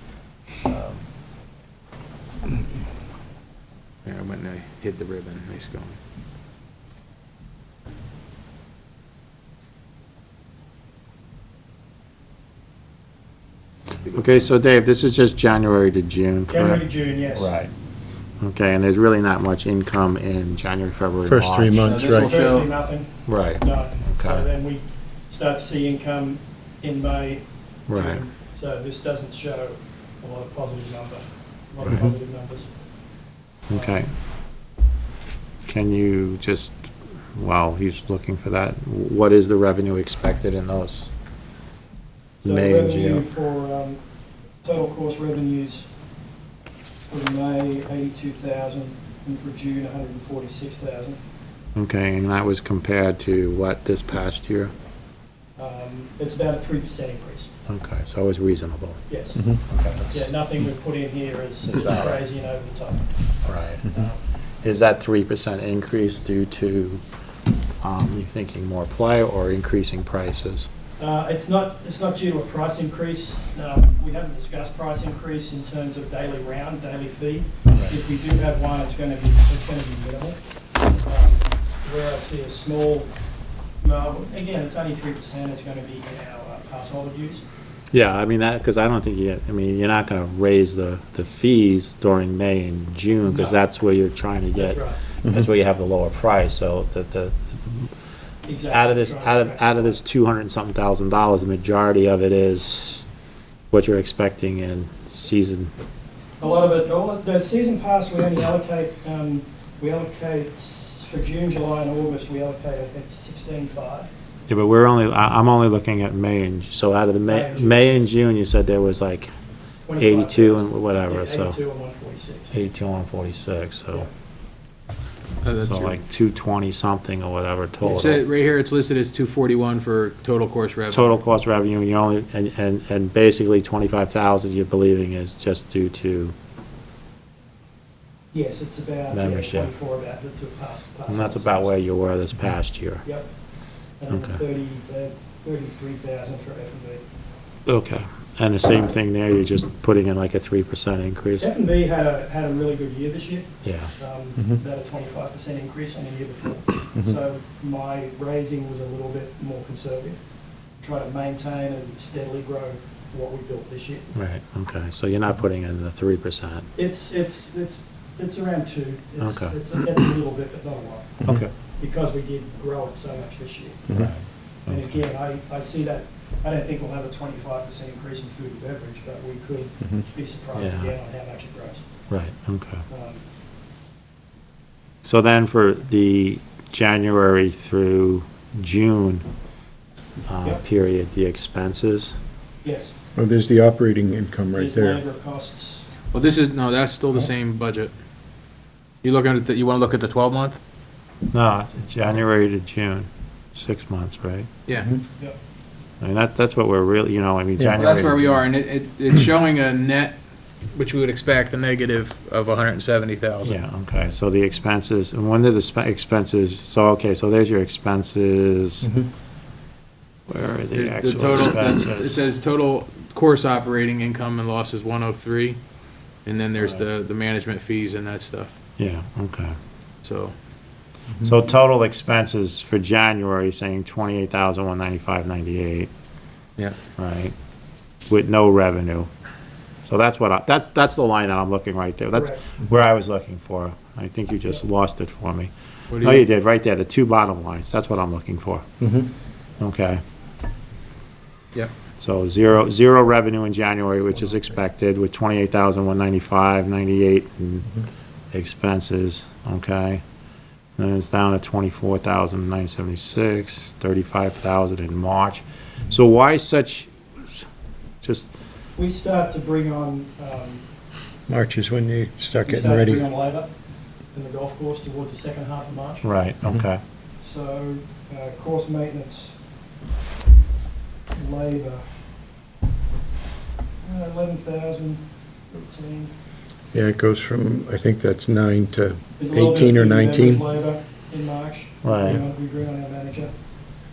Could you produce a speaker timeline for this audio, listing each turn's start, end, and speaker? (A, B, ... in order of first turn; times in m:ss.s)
0:00.6-0:01.0 A
0:04.0-0:06.0 A
0:14.1-0:17.7 B
0:16.5-0:17.6 C
0:18.4-0:22.0 B
0:21.2-0:22.4 D
0:21.8-0:22.7 A
0:22.1-0:32.7 C
0:23.3-0:24.4 B
0:27.9-0:28.2 B
0:31.9-0:32.1 D
0:33.7-0:34.1 B
0:33.7-0:34.0 C
0:35.6-0:41.1 B
0:42.4-0:43.2 B
0:42.4-0:44.0 C
0:44.6-0:45.9 C
0:47.0-0:51.2 C
0:51.7-0:54.7 B
0:55.6-0:57.5 C
0:57.7-0:59.0 B
0:59.1-1:03.1 C
0:59.7-1:00.3 B
1:01.7-1:02.2 B
1:03.4-1:03.8 B
1:03.8-1:04.2 C
1:04.6-1:07.0 B
1:07.8-1:10.7 B
1:11.0-1:20.4 C
1:21.0-1:23.1 C
1:23.8-1:27.4 C
1:27.9-1:37.9 B
1:33.2-1:33.6 C
1:34.5-1:35.0 C
1:38.4-1:40.0 C
1:38.7-1:43.0 B
1:43.7-1:45.7 B
1:46.4-1:54.1 C
1:54.5-1:59.3 B
1:57.3-1:58.1 C
1:59.8-2:02.5 C
2:00.0-2:01.6 B
2:02.5-2:04.1 B
2:05.4-2:06.0 A
2:05.6-2:08.2 B
2:07.8-2:11.2 A
2:10.9-2:16.3 B
2:18.3-2:21.7 C
2:19.1-2:19.7 B
2:21.1-2:23.0 B
2:23.0-2:23.3 C
2:24.0-2:27.0 C
2:24.1-2:24.4 B
2:27.6-2:31.5 B
2:31.4-2:40.2 C
2:33.6-2:33.9 B
2:40.8-2:44.1 C
2:44.1-2:46.7 B
2:46.7-2:54.1 C
2:49.2-2:49.6 B
2:51.2-2:51.5 B
2:53.9-2:55.0 B
2:54.6-3:01.8 C
3:00.5-3:00.9 B
3:02.1-3:02.8 B
3:02.9-3:03.2 C
3:05.0-3:09.2 B
3:10.3-3:12.1 B
3:12.6-3:12.9 C
3:13.2-3:15.0 D
3:14.5-3:15.9 C
3:16.1-3:17.9 A
3:19.0-3:20.6 A
3:21.3-3:24.5 B
3:26.0-3:28.4 B
3:27.6-3:27.8 D
3:27.8-3:30.2 A
3:30.7-3:33.6 A
3:33.4-3:38.9 B
3:38.8-3:39.1 D
3:40.3-3:42.2 B
3:40.7-3:45.6 A
3:46.2-3:48.5 A
3:46.6-3:46.8 B
3:48.8-3:49.6 B
3:50.0-3:50.3 A
3:51.2-3:55.9 B
3:57.0-3:57.3 B
3:58.1-3:59.1 B
3:59.8-4:08.6 B
4:02.1-4:02.4 C
4:05.9-4:06.2 A
4:08.8-4:09.1 D
4:09.6-4:10.0 B
4:12.0-4:17.7 B
4:18.3-4:20.0 B
4:20.8-4:27.5 B
4:28.0-4:28.3 B
4:28.8-4:30.6 C
4:31.3-4:33.0 D
4:32.4-4:33.5 C
4:34.1-4:36.1 C
4:36.0-4:36.8 B
4:37.2-4:39.3 C
4:41.1-4:41.9 C
4:43.8-4:46.1 C
4:46.7-4:50.4 D
4:49.2-4:53.3 C
4:51.8-4:52.2 B